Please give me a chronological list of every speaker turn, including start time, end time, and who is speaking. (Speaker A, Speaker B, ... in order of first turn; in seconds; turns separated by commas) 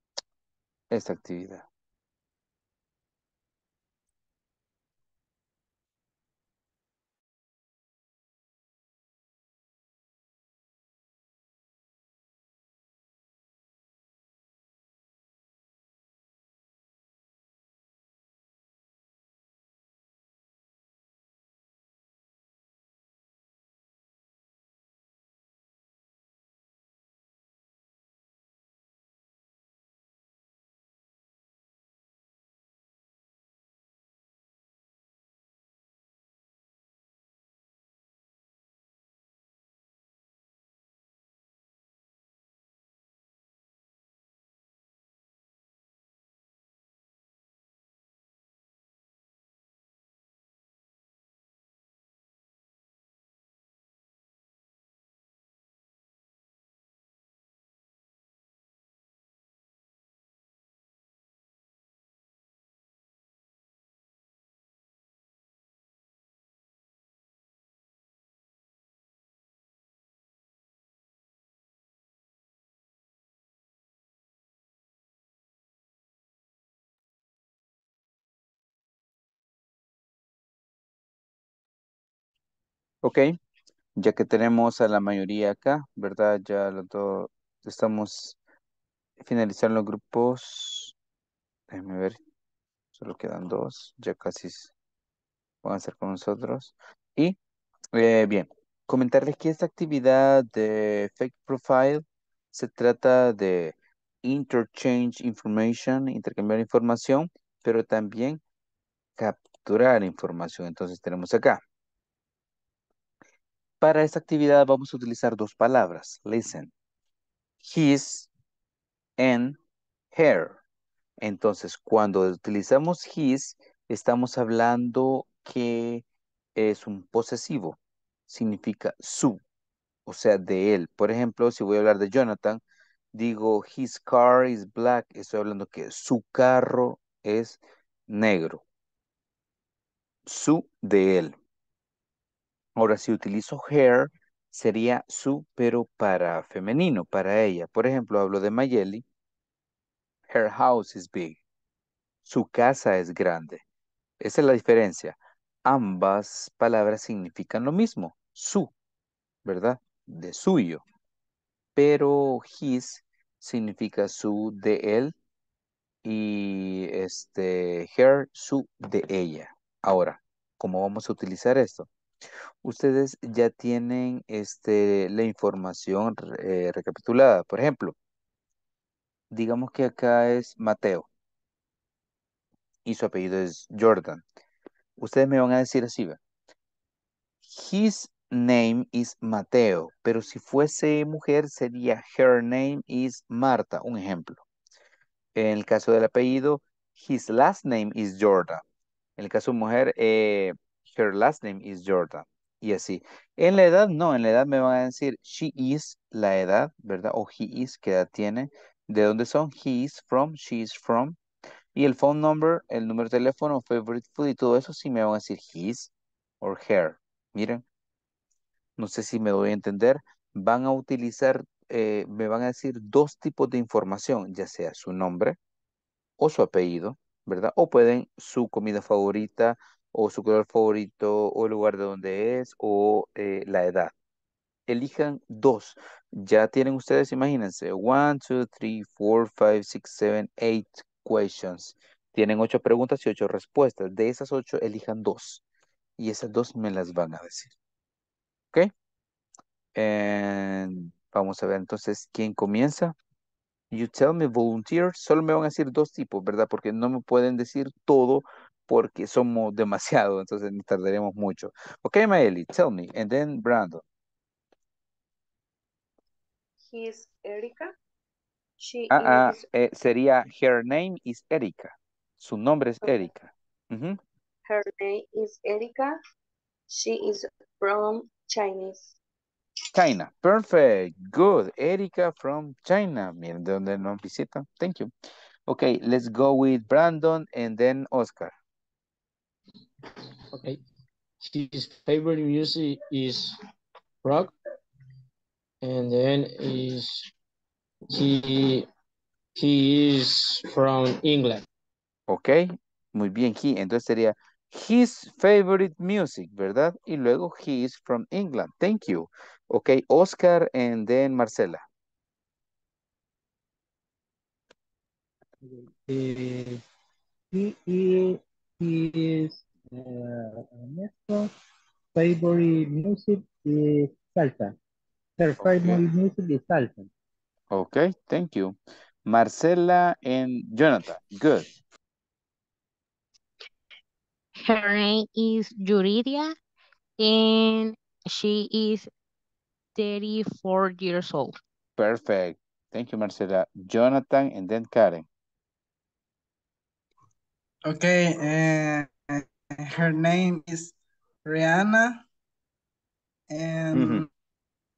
Speaker A: 0.9-1.6, Speaker A: 83.0-83.3, Speaker A: 84.0-88.4, Speaker A: 89.2-90.9, Speaker A: 91.7-92.2, Speaker A: 92.9-94.7, Speaker A: 95.6-97.4, Speaker A: 97.9-108.4, Speaker A: 109.2-111.6, Speaker A: 113.8-116.7, Speaker A: 117.6-118.3, Speaker A: 119.2-119.6, Speaker A: 120.1-120.6, Speaker A: 121.2-126.0, Speaker A: 126.5-127.8, Speaker A: 128.3-129.4, Speaker A: 130.1-132.6, Speaker A: 133.1-138.6, Speaker A: 140.3-141.3, Speaker A: 142.8-149.0, Speaker A: 150.3-151.4, Speaker A: 152.2-153.6, Speaker A: 154.2-158.7, Speaker A: 159.4-160.8, Speaker A: 161.8-165.1, Speaker A: 166.0-171.9, Speaker A: 172.6-177.9, Speaker A: 179.3-181.1, Speaker A: 182.8-184.2, Speaker A: 185.0-186.2, Speaker A: 187.4-194.4, Speaker A: 195.3-198.6, Speaker A: 199.2-211.2, Speaker A: 211.7-217.6, Speaker A: 218.8-225.4, Speaker A: 226.2-233.9, Speaker A: 234.7-245.4, Speaker A: 246.0-247.5, Speaker A: 249.8-252.9, Speaker A: 253.7-263.8, Speaker B: 266.6-267.7, Speaker B: 268.6-269.4, Speaker A: 268.9-274.0, Speaker B: 274.4-276.0, Speaker B: 276.7-278.9, Speaker A: 279.7-284.9, Speaker A: 285.5-288.3, Speaker C: 291.2-293.4, Speaker C: 294.0-294.3, Speaker C: 295.6-297.1, Speaker C: 297.9-298.6, Speaker C: 299.4-301.4, Speaker A: 302.1-311.6, Speaker D: 315.4-316.6, Speaker D: 317.3-321.3, Speaker D: 321.9-324.6, Speaker D: 325.2-326.9, Speaker A: 325.4-325.8, Speaker A: 327.5-331.5, Speaker E: 334.4-336.3, Speaker E: 337.0-338.9, Speaker E: 339.8-341.4, Speaker A: 341.8-345.1, Speaker F: 347.6-352.0, Speaker F: 353.3-354.1, Speaker A: 353.7-354.1